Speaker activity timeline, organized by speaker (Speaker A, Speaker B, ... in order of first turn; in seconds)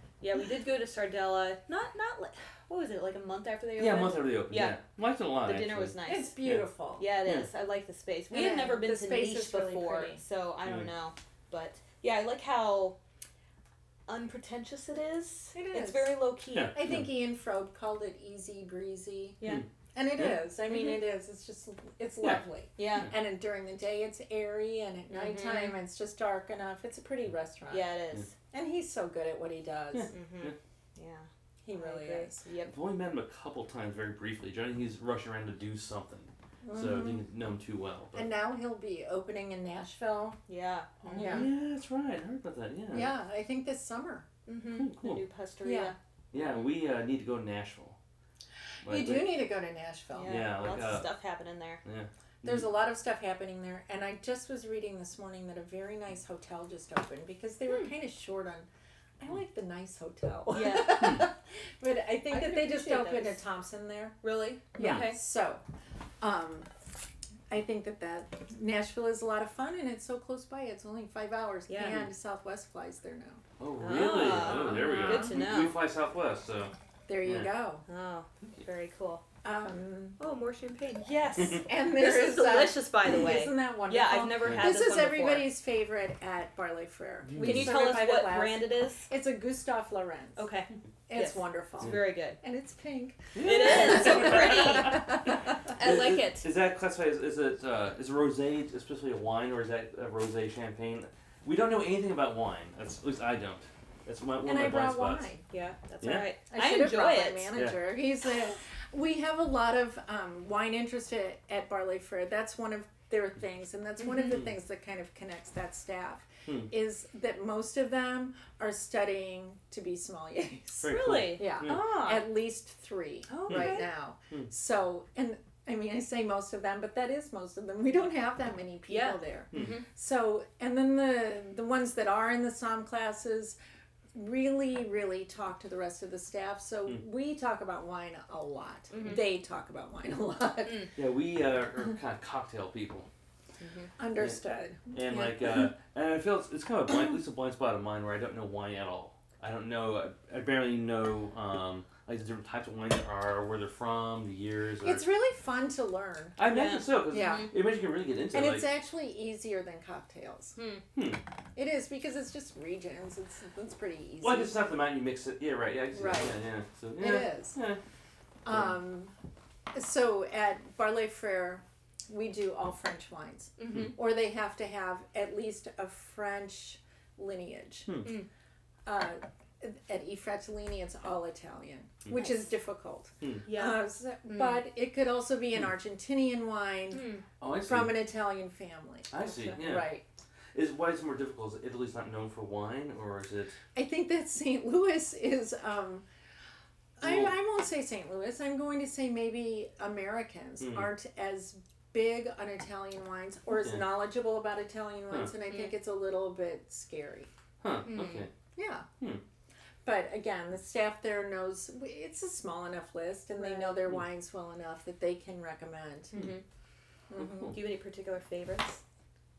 Speaker A: 0.2-4.8, 5.5-6.3, 7.0-13.0, 14.1-16.8, 22.8-23.1, 25.1-25.8, 27.7-28.3, 30.1-32.7, 40.5-41.5, 44.5-46.0, 50.1-51.8, 60.5-61.2, 62.3-63.4, 64.2-65.2, 71.7-72.0, 73.8-75.8, 77.9-79.2, 80.2-85.5, 87.4-89.1, 90.4-92.4, 93.4-96.5, 105.5-107.5, 120.8-122.3, 123.3-123.9, 128.9-129.8, 138.9-139.2, 143.6-143.9, 156.5-157.5, 160.6-160.8, 173.6-173.9, 183.4-184.6, 186.9-187.2, 207.8-208.3, 213.4-213.8, 216.1-216.4, 217.5-218.8
Speaker B: 3.8-6.7, 10.6-10.9, 16.5-17.0, 29.9-30.5, 32.7-38.3, 41.1-43.1, 44.7-45.2, 46.3-48.0, 48.8-49.3, 50.3-51.1, 51.8-52.7, 64.8-65.0, 73.6-77.5, 87.2-87.8, 93.3-95.1, 95.8-105.3, 106.0-106.3, 120.8-121.9, 123.5-124.5, 129.5-129.8, 140.9-143.1, 144.9-155.0, 156.4-158.7, 160.9-161.2, 164.2-167.8, 177.9-178.2, 187.4-188.0, 189.1-189.9, 190.5-193.6, 197.0-197.3, 200.6-200.9, 207.6-208.3, 217.2-217.5
Speaker C: 6.0-7.1, 8.3-10.2, 15.5-16.1, 16.7-19.4, 19.9-30.1, 31.6-32.4, 36.6-37.2, 38.1-40.4, 41.1-41.5, 42.9-44.3, 45.6-45.9, 48.8-50.4, 52.4-58.7, 59.2-64.2, 64.8-65.6, 66.2-66.7, 67.5-73.4, 74.2-75.4, 77.1-77.8, 79.4-80.2, 81.5-90.4, 91.1-95.6, 104.4-105.4, 106.5-133.6, 134.1-140.9, 144.0-144.9, 154.8-156.4, 157.1-157.5, 158.3-160.6, 161.5-164.6, 165.9-166.4, 167.0-167.6, 168.4-169.1, 169.7-178.0, 178.8-190.0, 193.7-196.1, 197.0-207.3, 208.5-208.9, 209.8-216.1, 217.1-217.6